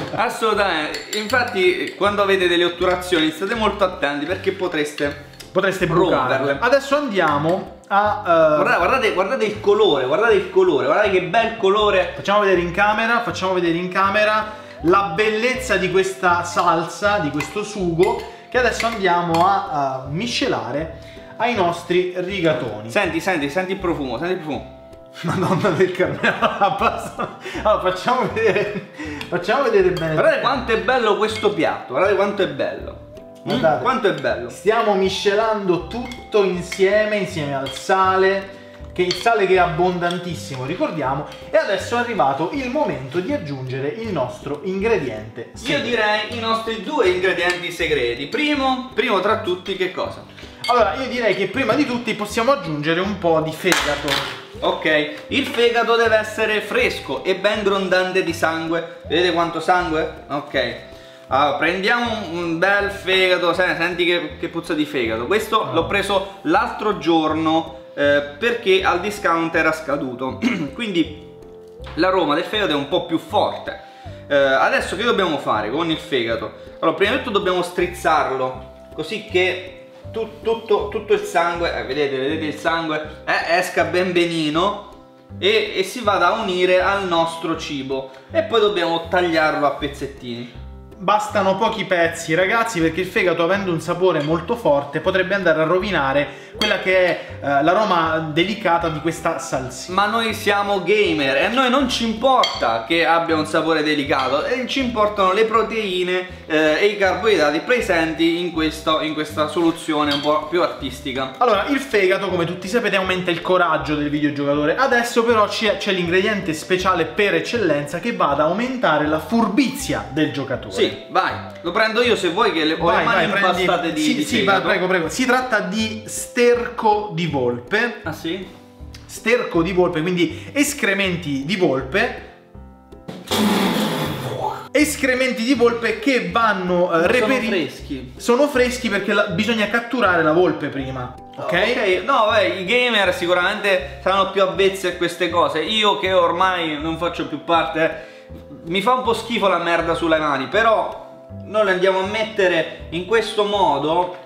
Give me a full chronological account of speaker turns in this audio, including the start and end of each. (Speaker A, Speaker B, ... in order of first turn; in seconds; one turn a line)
Speaker A: 0.1-5.2
Speaker B: 5.5-8.8
Speaker A: 5.9-6.6
Speaker A: 8.5-12.2
Speaker B: 12.2-22.9
Speaker A: 22.9-24.7
Speaker B: 25.2-30.6
Speaker A: 30.1-34.5
Speaker B: 33.5-34.0
Speaker B: 34.5-46.0
Speaker A: 45.6-50.3
Speaker B: 50.6-54.2
Speaker A: 54.6-71.3
Speaker A: 72.0-90.5
Speaker B: 91.0-99.9
Speaker A: 99.9-111.3
Speaker B: 111.4-121.0
Speaker A: 120.7-124.8
Speaker B: 122.8-128.0
Speaker A: 128.0-128.5
Speaker B: 129.1-132.2
Speaker B: 134.7-137.6
Speaker A: 137.0-138.1
Speaker B: 138.2-141.8
Speaker A: 141.4-154.2